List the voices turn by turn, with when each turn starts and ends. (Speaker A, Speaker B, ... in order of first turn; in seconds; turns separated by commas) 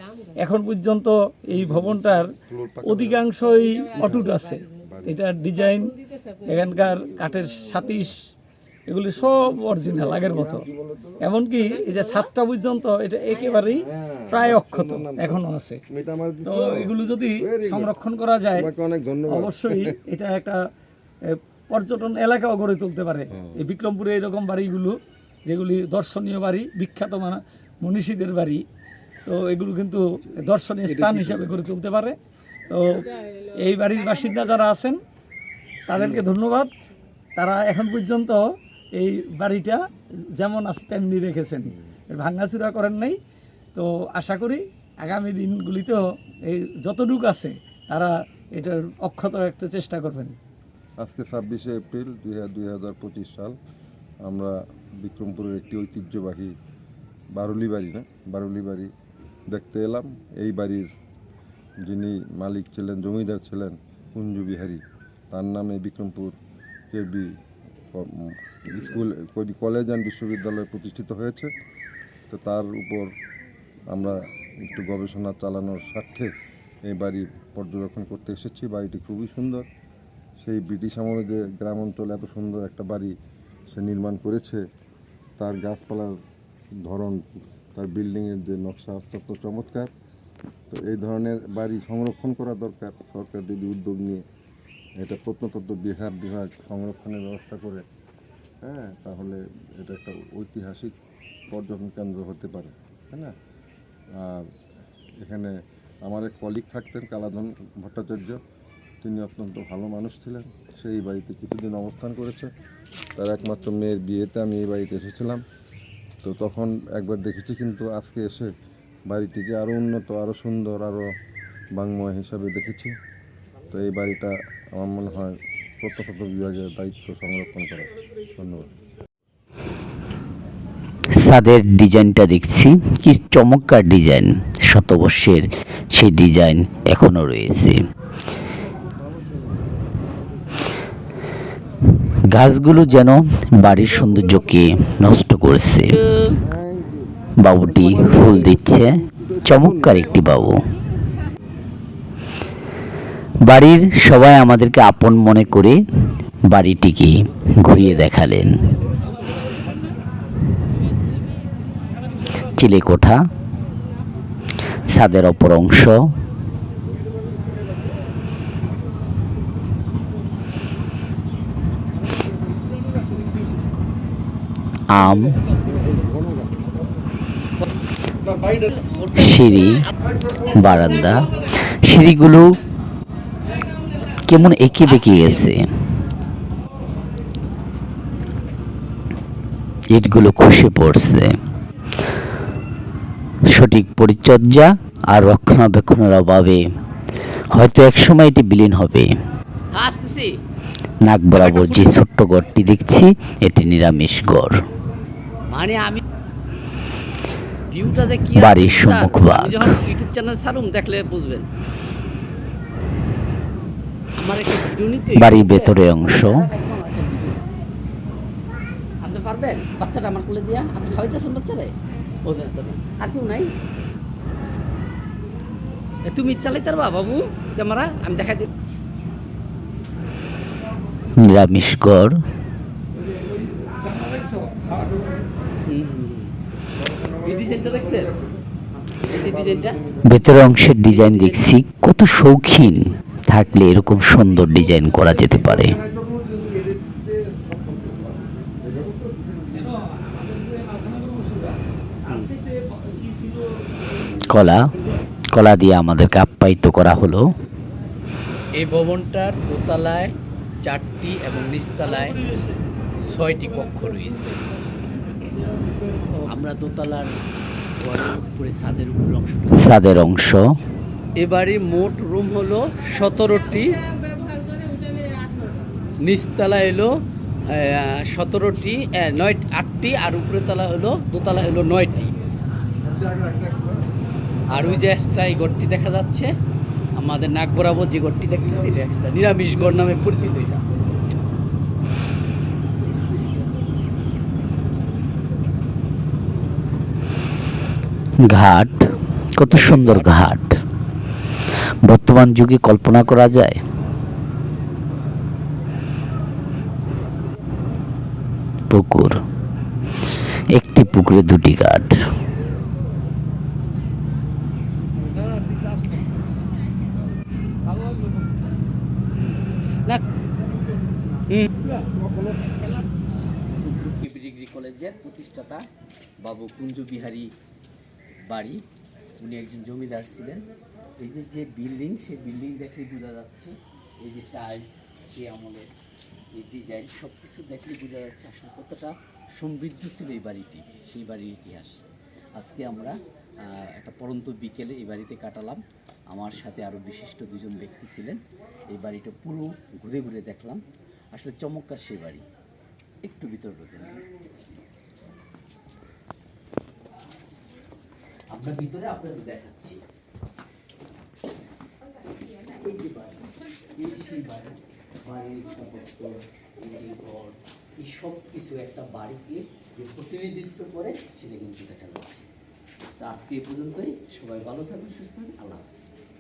Speaker A: 0.3-2.3, Speaker B: 1.5-3.2, Speaker A: 2.8-8.3, Speaker B: 4.0-4.3, Speaker B: 4.8-5.2, Speaker A: 8.9-10.6, Speaker B: 9.6-11.2, Speaker A: 11.2-15.8, Speaker B: 13.7-17.9, Speaker A: 16.4-18.7, Speaker B: 18.5-20.0, Speaker A: 19.3-20.6, Speaker A: 21.2-28.6, Speaker A: 29.2-32.2, Speaker B: 30.9-31.6, Speaker A: 32.7-35.0, Speaker A: 35.9-36.7, Speaker B: 36.0-36.2, Speaker A: 37.4-43.2, Speaker A: 43.7-50.4, Speaker B: 51.0-53.6, Speaker B: 54.2-56.5, Speaker B: 57.3-58.9, Speaker B: 59.5-60.9, Speaker B: 61.8-64.8, Speaker B: 65.3-66.3, Speaker B: 66.9-67.3, Speaker B: 67.9-71.5, Speaker B: 72.3-73.1, Speaker B: 73.9-76.3, Speaker B: 76.9-79.7, Speaker B: 80.4-83.1, Speaker B: 83.7-84.6, Speaker B: 85.4-86.2, Speaker B: 86.8-87.2, Speaker B: 87.7-89.9, Speaker B: 90.7-94.2, Speaker B: 95.0-97.8, Speaker B: 98.6-100.9, Speaker B: 101.5-103.3, Speaker B: 104.2-104.5, Speaker B: 105.2-105.5, Speaker B: 106.0-108.4, Speaker B: 109.0-112.5, Speaker B: 113.2-115.4, Speaker B: 116.2-118.5, Speaker B: 119.1-121.1, Speaker B: 121.7-122.9, Speaker B: 123.7-128.7, Speaker C: 131.2-137.8, Speaker B: 138.9-140.0, Speaker C: 142.3-146.0, Speaker D: 145.9-146.4, Speaker B: 146.4-147.1, Speaker C: 147.4-150.6, Speaker B: 147.8-149.8, Speaker C: 153.4-155.8, Speaker C: 156.5-158.7, Speaker C: 162.4-163.2, Speaker C: 164.8-166.0, Speaker C: 174.9-175.4, Speaker B: 175.6-176.7, Speaker B: 178.3-178.8, Speaker C: 179.1-179.8, Speaker B: 180.2-180.5, Speaker C: 180.4-182.5, Speaker C: 184.1-185.7, Speaker D: 184.9-185.2, Speaker C: 189.9-191.4, Speaker C: 193.5-196.6, Speaker C: 197.5-199.1, Speaker D: 199.7-200.4, Speaker C: 201.0-204.6, Speaker D: 201.3-201.9, Speaker D: 205.5-206.0, Speaker D: 207.7-211.5, Speaker C: 208.3-209.8, Speaker D: 214.2-217.4, Speaker C: 215.1-216.5, Speaker D: 219.0-223.5, Speaker D: 226.0-228.5, Speaker C: 231.2-232.2, Speaker A: 233.0-235.3, Speaker D: 235.7-236.3, Speaker B: 236.8-238.4, Speaker D: 237.2-238.1, Speaker D: 239.0-239.8, Speaker B: 239.0-240.2, Speaker C: 240.1-245.8, Speaker D: 240.8-241.5, Speaker B: 245.3-249.6, Speaker A: 249.5-254.9, Speaker D: 252.1-252.3, Speaker C: 254.2-254.7, Speaker C: 255.3-257.3, Speaker D: 258.6-262.2, Speaker A: 261.8-262.6, Speaker D: 263.0-264.5, Speaker A: 265.7-266.2, Speaker D: 266.2-267.1, Speaker D: 267.8-270.1, Speaker C: 269.5-270.4, Speaker D: 271.2-273.9, Speaker D: 276.0-276.9, Speaker D: 277.4-282.1, Speaker B: 282.8-283.9, Speaker D: 284.5-286.3, Speaker D: 286.9-290.6, Speaker C: 298.2-300.5, Speaker D: 299.4-300.2, Speaker C: 301.8-303.6, Speaker C: 308.7-309.2, Speaker C: 310.5-311.9, Speaker B: 315.3-315.6, Speaker B: 321.9-322.5, Speaker D: 323.1-325.6, Speaker D: 326.2-327.3, Speaker D: 328.2-328.6, Speaker D: 329.2-330.4, Speaker D: 331.0-335.7, Speaker D: 336.4-341.8, Speaker D: 342.4-350.6, Speaker D: 351.1-352.2, Speaker D: 353.0-354.0, Speaker D: 358.3-359.8, Speaker D: 362.2-372.3, Speaker D: 373.0-375.9